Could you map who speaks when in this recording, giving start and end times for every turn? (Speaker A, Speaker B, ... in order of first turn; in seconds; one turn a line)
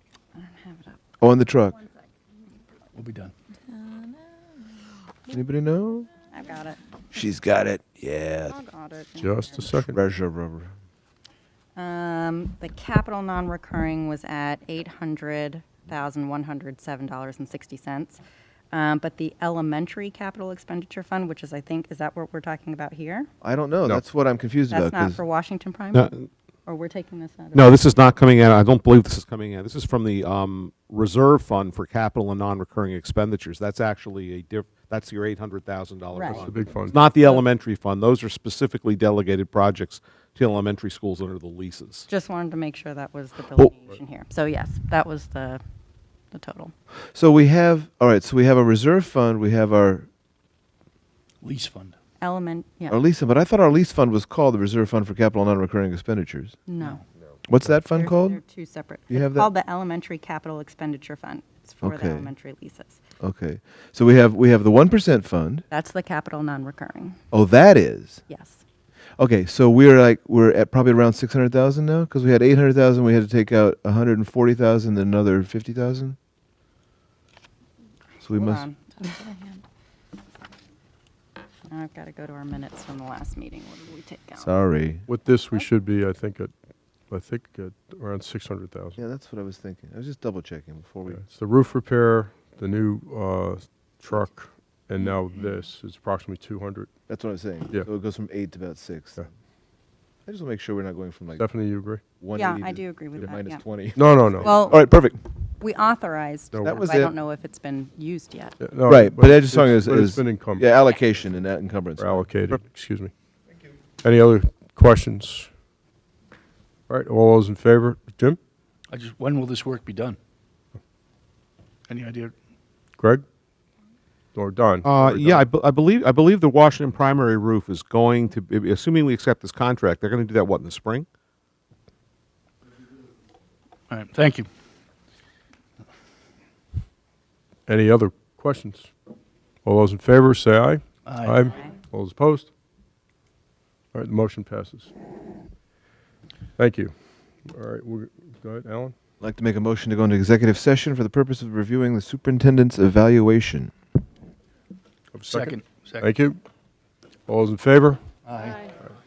Speaker A: 0.3-1.0
Speaker B: 1.2-1.8
Speaker C: 2.9-3.3
Speaker B: 5.3-6.1
Speaker A: 6.3-6.8
Speaker B: 7.1-8.5
Speaker A: 8.5-9.7
Speaker D: 9.2-10.0
Speaker B: 9.7-10.7
Speaker A: 11.8-18.2
Speaker A: 18.7-23.3
Speaker B: 23.4-25.2
Speaker A: 24.7-28.0
Speaker E: 25.9-26.2
Speaker E: 27.5-42.1
Speaker A: 36.1-37.4
Speaker D: 36.3-37.0
Speaker A: 42.1-45.6
Speaker A: 46.3-46.7
Speaker B: 47.1-50.1
Speaker C: 51.4-52.0
Speaker A: 52.2-53.0
Speaker B: 52.9-56.6
Speaker A: 56.6-57.0
Speaker C: 56.8-57.0
Speaker B: 57.5-58.4
Speaker A: 57.8-63.0
Speaker B: 59.1-59.5
Speaker B: 61.8-62.3
Speaker B: 63.2-65.7
Speaker A: 65.7-67.2
Speaker B: 67.3-68.2
Speaker A: 68.3-68.6
Speaker B: 69.2-76.2
Speaker B: 78.2-78.7
Speaker A: 78.3-79.4
Speaker A: 81.7-84.5
Speaker B: 84.4-85.0
Speaker D: 85.1-86.5
Speaker D: 87.1-89.0
Speaker B: 89.0-91.2
Speaker D: 91.1-96.9
Speaker B: 97.1-99.2
Speaker B: 100.2-101.5
Speaker D: 101.4-102.0
Speaker B: 102.2-105.2
Speaker A: 102.3-103.6
Speaker D: 103.9-104.6
Speaker A: 104.3-105.0
Speaker A: 105.6-108.6
Speaker D: 106.5-106.8
Speaker B: 106.6-107.1
Speaker D: 108.6-110.7
Speaker B: 108.8-112.6
Speaker D: 112.0-113.1
Speaker D: 114.0-115.5
Speaker D: 116.9-118.4
Speaker C: 118.9-120.2
Speaker C: 121.9-122.3
Speaker D: 123.0-123.2
Speaker D: 124.3-125.5
Speaker E: 124.8-131.1
Speaker C: 133.9-134.5
Speaker D: 137.7-138.9
Speaker D: 139.6-142.5
Speaker C: 141.1-141.4
Speaker D: 143.9-144.9
Speaker D: 146.6-148.9
Speaker B: 149.2-153.7
Speaker D: 155.1-156.4
Speaker C: 155.3-156.1
Speaker D: 157.3-158.0
Speaker C: 158.2-158.7